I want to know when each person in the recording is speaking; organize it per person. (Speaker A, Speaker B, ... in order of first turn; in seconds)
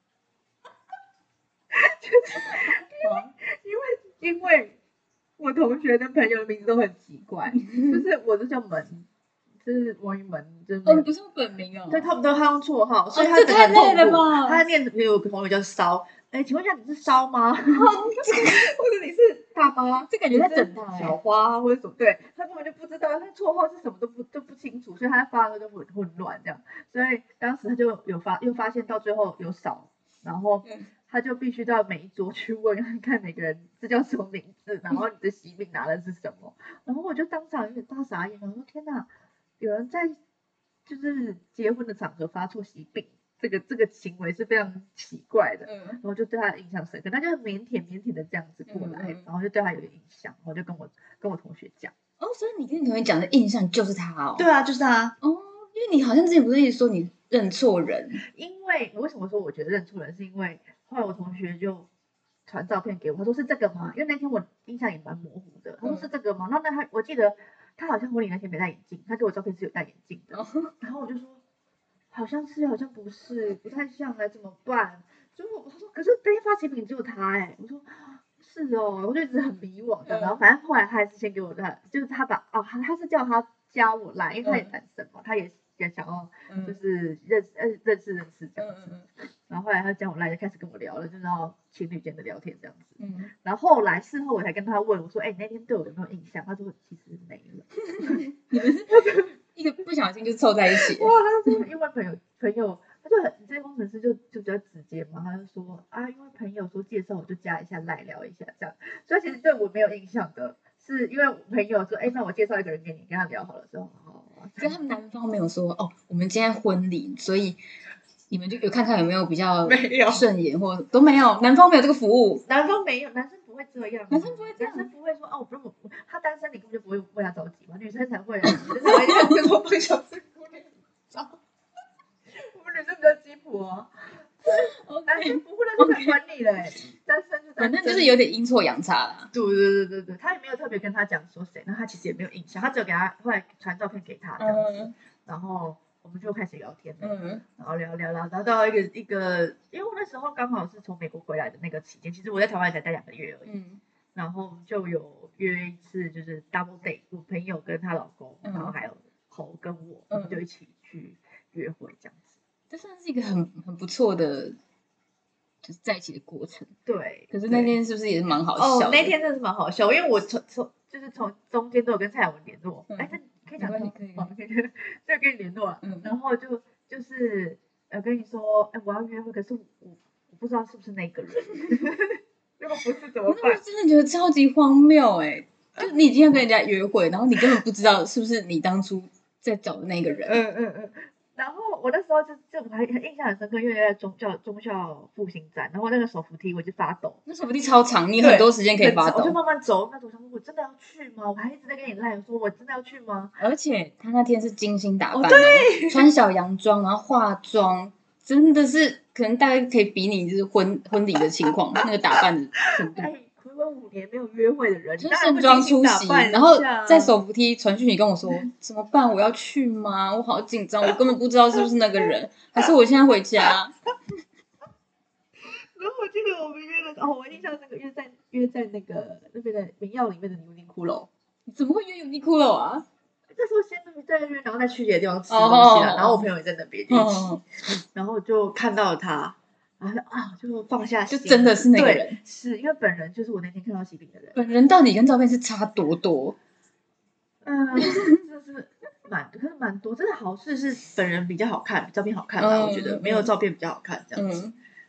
Speaker A: 1.7-4.8, 5.4-9.1, 9.6-11.1, 11.9-39.1, 39.6-40.2, 40.9-51.9, 54.4-55.2, 58.3-61.9, 62.5-71.4, 72.1-88.9, 89.5-99.4, 100.7-114.8, 119.6-120.2, 122.5-131.4, 132.3-138.2, 139.3-153.5, 154.2-162.3, 166.9-167.7, 168.6-183.6, 190.2-197.2, 198.2-203.4, 205.1-206.1, 212.7-217.2, 225.4-231.1, 233.3-237.3, 237.9-244.4, 247.4-254.4
Speaker B: 3.0-3.3, 7.7-8.0, 10.8-12.1, 13.1-14.7, 17.7-18.6, 20.1-21.2, 45.7-46.0, 48.7-49.2, 52.2-54.5, 55.2-58.2, 65.8-66.1, 70.3-70.7, 80.1-80.4, 84.4-84.7, 86.5-86.8, 88.6-89.1, 93.0-93.3, 98.0-101.6, 114.6-117.6, 118.3-122.4, 124.1-124.9, 128.8-129.3, 134.5-136.2, 137.6-139.3, 144.4-144.9, 147.0-147.4, 153.5-153.8, 158.4-158.7, 160.1-160.4, 162.7-164.6, 165.6-166.7, 167.3-169.1, 172.9-174.3, 175.8-176.1, 183.3-190.4, 197.3-199.4, 203.4-213.1, 215.0-223.7, 231.5-232.9, 235.3-236.3, 236.9-237.4, 241.1-242.2, 244.3-246.4, 252.4-253.3, 254.2-254.6